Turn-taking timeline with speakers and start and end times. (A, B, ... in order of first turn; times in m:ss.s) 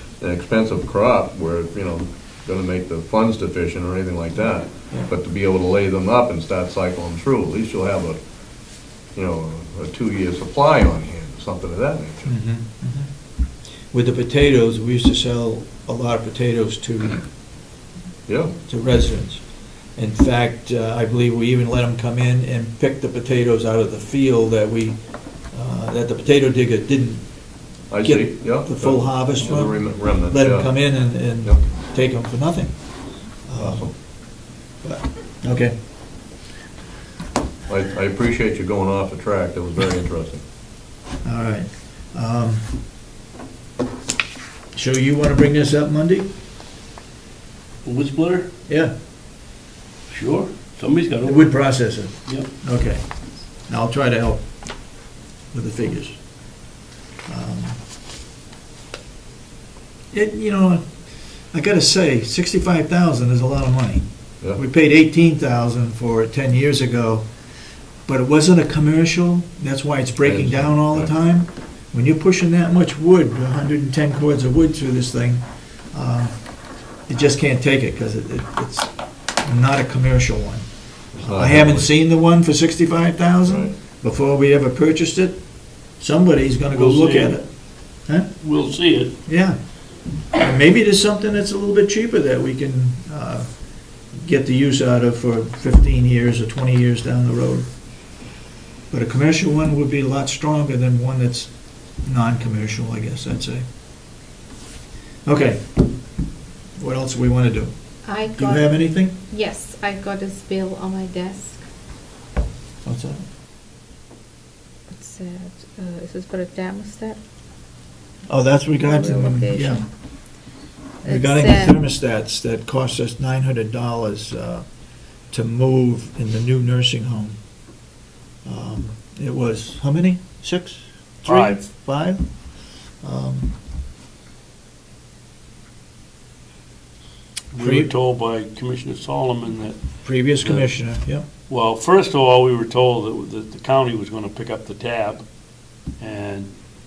0:00.2-0:08.2 A
0:09.1-0:12.3 A
0:12.2-0:13.1 B
0:13.9-0:17.2 B
0:18.3-0:18.5 A
0:18.6-0:19.4 B
0:20.0-0:25.0 B
0:25.5-0:27.3 B
0:27.9-0:30.7 A
0:28.0-0:34.0 B
0:33.6-0:33.9 A
0:34.8-0:35.7 B
0:37.7-0:40.4 A
0:41.2-0:42.7 B
0:44.7-0:46.3 B
0:47.8-0:48.5 C
0:48.7-0:48.9 B
0:50.1-0:51.6 C
0:51.2-0:53.0 B
0:53.7-0:54.5 B
0:55.5-0:56.2 B
0:57.2-0:57.8 B
1:00.1-1:00.9 B
1:01.5-1:04.0 B
1:04.5-1:07.2 B
1:08.0-1:16.3 B
1:10.2-1:11.1 A
1:17.1-1:18.9 B
1:19.4-1:20.7 B
1:21.1-1:21.9 A
1:21.2-1:25.4 B
1:23.4-1:23.8 A
1:26.0-1:27.4 B
1:26.7-1:27.4 C
1:28.4-1:29.1 C
1:29.2-1:29.6 B
1:30.4-1:33.5 B
1:34.1-1:37.7 B
1:38.9-1:41.5 B
1:42.0-1:43.6 B
1:45.2-1:45.9 B
1:46.8-1:47.7 B
1:48.0-1:51.6 D
1:48.3-1:49.1 B
1:52.8-1:53.2 B
1:54.9-1:57.2 D
1:58.3-1:59.8 B
1:58.8-1:59.8 D
2:01.0-2:01.7 D
2:01.0-2:04.6 B
2:05.3-2:07.4 B
2:08.4-2:12.3 B
2:11.2-2:11.6 C
2:13.0-2:13.6 B
2:17.5-2:19.8 C
2:17.6-2:17.9 B
2:20.0-2:21.2 B
2:20.4-2:20.7 C
2:21.5-2:25.2 C
2:26.0-2:26.5 C